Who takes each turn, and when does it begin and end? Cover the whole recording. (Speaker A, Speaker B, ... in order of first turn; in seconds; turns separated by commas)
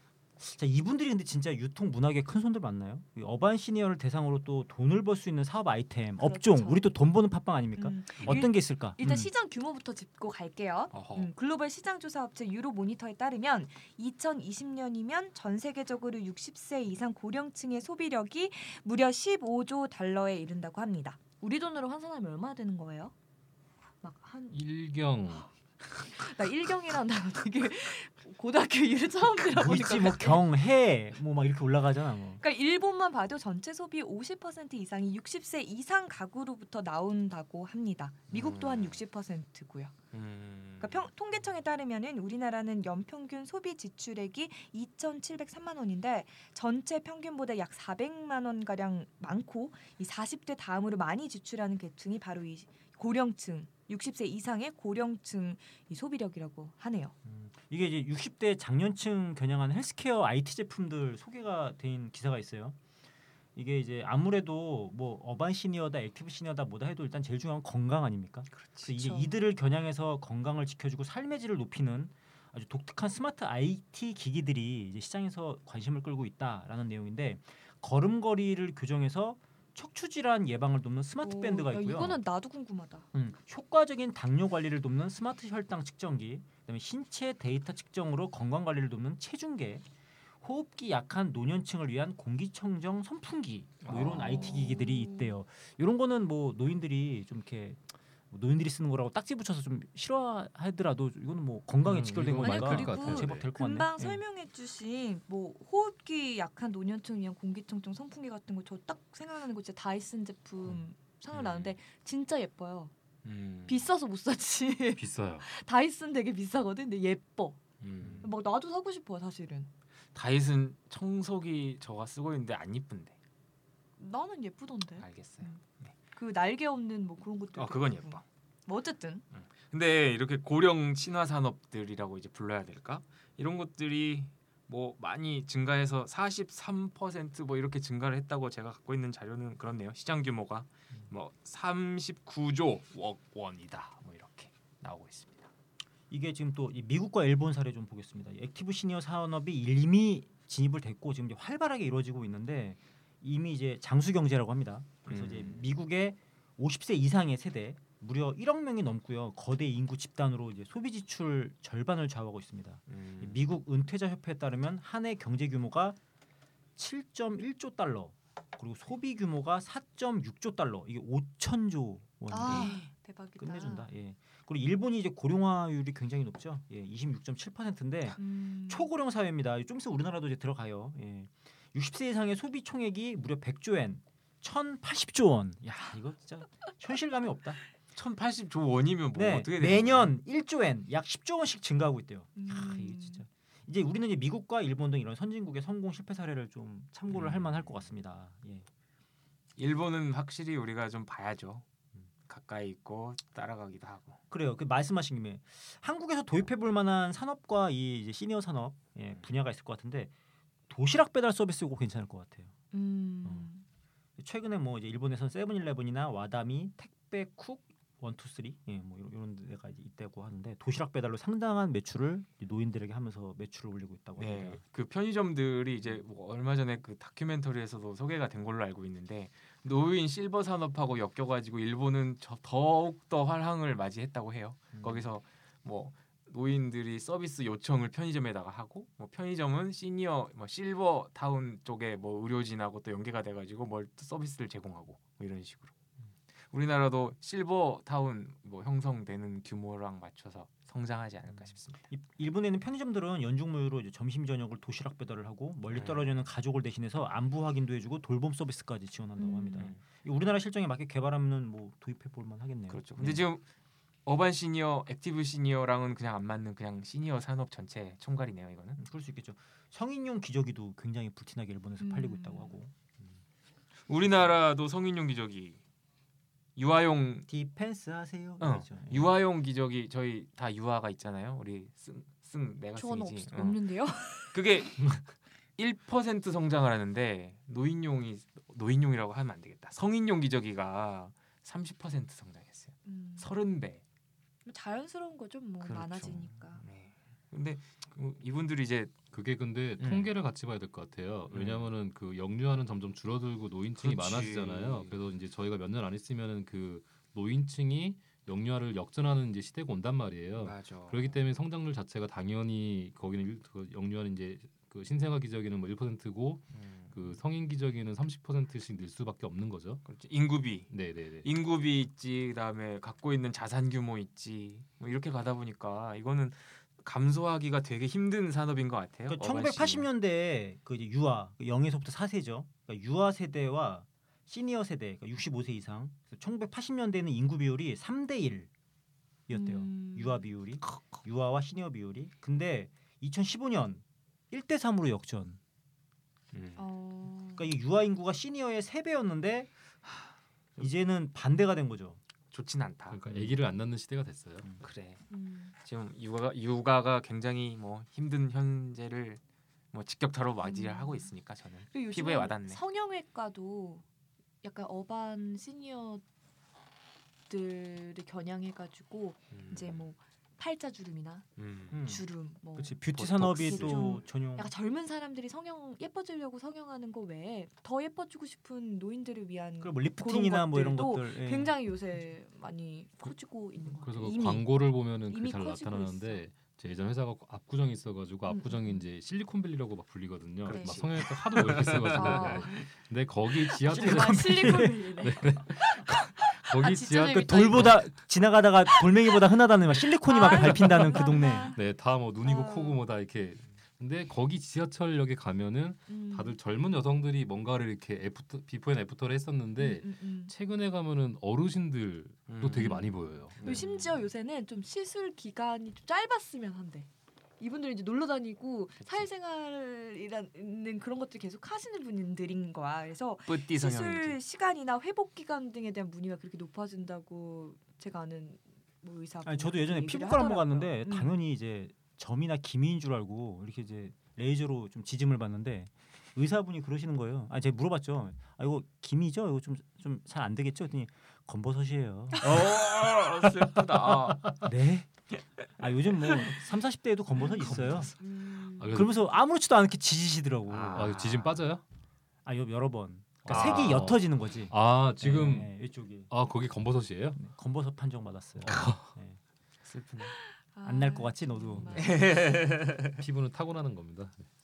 Speaker A: 0.4-9.0, Speaker B: 6.2-7.0, Speaker B: 7.8-23.1, Speaker C: 10.9-11.3, Speaker B: 24.0-24.6, Speaker D: 24.5-25.5, Speaker B: 26.1-30.5, Speaker A: 29.4-32.4, Speaker B: 32.4-40.0, Speaker C: 38.3-39.0, Speaker C: 40.1-41.1, Speaker B: 40.8-57.1, Speaker A: 57.2-62.8, Speaker A: 63.6-82.2, Speaker C: 68.5-68.9, Speaker B: 69.0-69.3, Speaker B: 81.2-83.1, Speaker A: 83.1-89.8, Speaker A: 90.4-104.2, Speaker C: 93.8-94.8, Speaker B: 94.8-95.4, Speaker D: 101.8-103.5, Speaker B: 102.4-112.9, Speaker C: 111.3-111.8, Speaker C: 113.2-113.9, Speaker B: 113.7-117.6, Speaker D: 115.0-115.5, Speaker C: 117.8-118.3, Speaker B: 118.2-119.7, Speaker C: 120.1-123.2, Speaker B: 124.0-129.2, Speaker C: 125.0-126.0, Speaker C: 127.6-128.2, Speaker C: 129.3-145.5, Speaker A: 146.1-166.0, Speaker C: 155.1-155.7, Speaker C: 162.9-163.4, Speaker A: 166.8-172.8, Speaker B: 172.3-173.9, Speaker C: 172.5-172.9, Speaker A: 173.4-187.6, Speaker B: 178.2-178.9, Speaker C: 187.9-190.1, Speaker A: 189.1-198.7, Speaker B: 192.3-193.2, Speaker C: 197.1-197.9, Speaker C: 199.6-201.7, Speaker C: 202.3-204.2, Speaker A: 204.3-210.1, Speaker A: 210.7-212.5, Speaker B: 212.7-213.7, Speaker A: 213.2-213.5, Speaker A: 214.2-224.6, Speaker C: 224.2-245.7, Speaker A: 234.7-235.1, Speaker C: 246.5-251.9, Speaker A: 251.3-263.2, Speaker C: 255.7-256.1, Speaker B: 259.2-259.7, Speaker C: 262.7-263.4, Speaker C: 264.1-268.8, Speaker A: 268.8-272.8, Speaker B: 271.8-272.6, Speaker C: 273.9-275.6, Speaker C: 276.6-277.3, Speaker A: 277.3-279.2, Speaker C: 278.4-283.6, Speaker B: 282.8-284.4, Speaker C: 284.3-285.0, Speaker C: 285.6-293.8, Speaker B: 292.9-293.3, Speaker B: 294.5-296.6, Speaker C: 295.6-298.9, Speaker D: 299.1-319.9, Speaker C: 299.8-300.1, Speaker C: 301.3-301.7, Speaker C: 303.8-305.0, Speaker C: 310.4-311.1, Speaker C: 316.5-317.1, Speaker C: 319.9-320.7, Speaker D: 320.7-321.3, Speaker C: 321.2-329.9, Speaker A: 329.1-338.5, Speaker A: 339.3-345.4, Speaker B: 339.3-341.0, Speaker C: 346.3-346.6, Speaker B: 346.6-347.5, Speaker A: 347.4-349.5, Speaker A: 350.6-352.0, Speaker C: 352.3-353.3, Speaker D: 352.9-354.5, Speaker C: 354.5-355.0, Speaker B: 355.1-355.6, Speaker C: 355.6-359.2, Speaker C: 359.7-362.6, Speaker B: 360.4-361.1, Speaker B: 361.7-363.8, Speaker B: 364.4-366.0, Speaker B: 367.3-371.3, Speaker C: 369.3-369.8, Speaker C: 371.4-371.8, Speaker A: 371.7-374.5, Speaker B: 371.8-384.5, Speaker C: 372.9-373.9, Speaker A: 379.6-381.6, Speaker D: 383.8-397.9, Speaker B: 385.1-386.2, Speaker B: 388.3-388.9, Speaker C: 390.4-392.5, Speaker B: 390.5-390.9, Speaker B: 391.9-392.7, Speaker B: 393.6-397.9, Speaker A: 393.7-394.9, Speaker A: 397.2-401.5, Speaker B: 398.7-399.1, Speaker B: 400.0-401.6, Speaker D: 400.3-401.0, Speaker D: 401.5-413.6, Speaker B: 402.2-402.8, Speaker B: 405.9-406.4, Speaker B: 409.6-410.3, Speaker C: 412.3-414.1, Speaker B: 412.5-416.9, Speaker B: 417.4-431.2, Speaker C: 418.8-419.1, Speaker C: 423.3-424.2, Speaker A: 429.2-442.7, Speaker C: 442.2-444.4, Speaker A: 444.4-444.9, Speaker A: 445.6-447.9, Speaker B: 447.2-447.5, Speaker C: 447.4-447.9, Speaker B: 448.0-448.7, Speaker D: 448.6-449.0, Speaker A: 448.7-451.1, Speaker C: 450.5-451.4, Speaker D: 450.6-451.6, Speaker A: 452.2-456.1, Speaker D: 453.3-455.5, Speaker D: 456.1-457.2, Speaker A: 457.2-459.2, Speaker D: 458.5-458.9, Speaker C: 459.6-460.1, Speaker B: 460.1-462.0, Speaker A: 460.6-461.9, Speaker C: 461.7-463.0, Speaker D: 463.0-464.3